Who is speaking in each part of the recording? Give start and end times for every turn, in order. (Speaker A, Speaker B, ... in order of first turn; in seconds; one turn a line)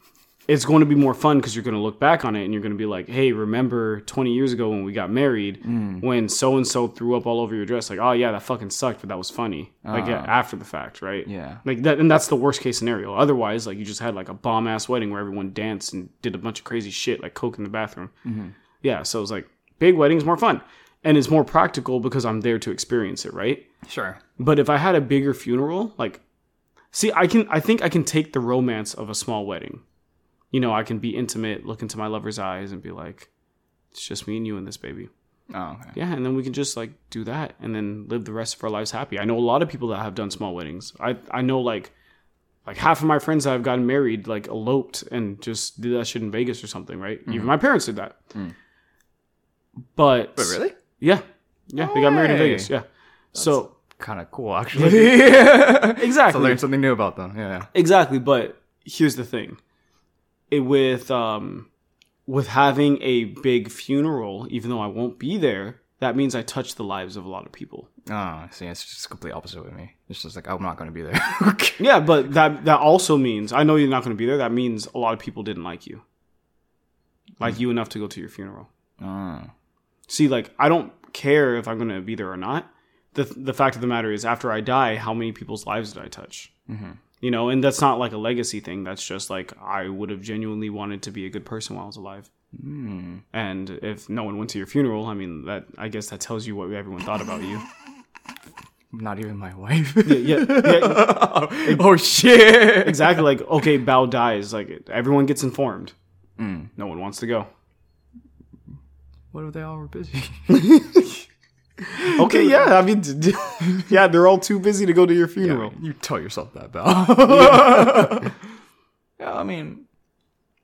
Speaker A: 0.5-18.1
Speaker B: 5.6-6.0
Speaker B: 9.8-10.3
Speaker B: 11.2-11.6
Speaker B: 18.2-18.5
Speaker A: 18.8-23.6
Speaker B: 23.8-24.2
Speaker A: 24.4-26.2
Speaker A: 26.9-29.8
Speaker A: 30.5-33.3
Speaker A: 33.9-35.1
Speaker B: 35.5-36.0
Speaker A: 35.9-41.9
Speaker A: 42.6-48.1
Speaker B: 47.3-47.5
Speaker A: 50.0-53.7
Speaker B: 50.4-50.7
Speaker B: 51.8-52.7
Speaker B: 53.4-57.7
Speaker A: 54.7-56.6
Speaker A: 57.7-59.6
Speaker A: 60.5-61.7
Speaker A: 62.3-67.9
Speaker B: 68.1-71.9
Speaker A: 71.8-76.0
Speaker A: 77.4-78.7
Speaker B: 79.0-79.5
Speaker A: 80.1-86.5
Speaker B: 86.7-87.0
Speaker A: 87.2-92.3
Speaker B: 92.5-93.2
Speaker A: 93.3-97.6
Speaker B: 98.9-103.2
Speaker A: 100.0-101.8
Speaker A: 102.7-105.9
Speaker B: 106.4-106.7
Speaker A: 106.8-107.5
Speaker B: 109.3-110.8
Speaker A: 110.5-111.1
Speaker B: 112.0-112.6
Speaker A: 112.0-115.8
Speaker B: 115.4-118.3
Speaker B: 119.2-119.8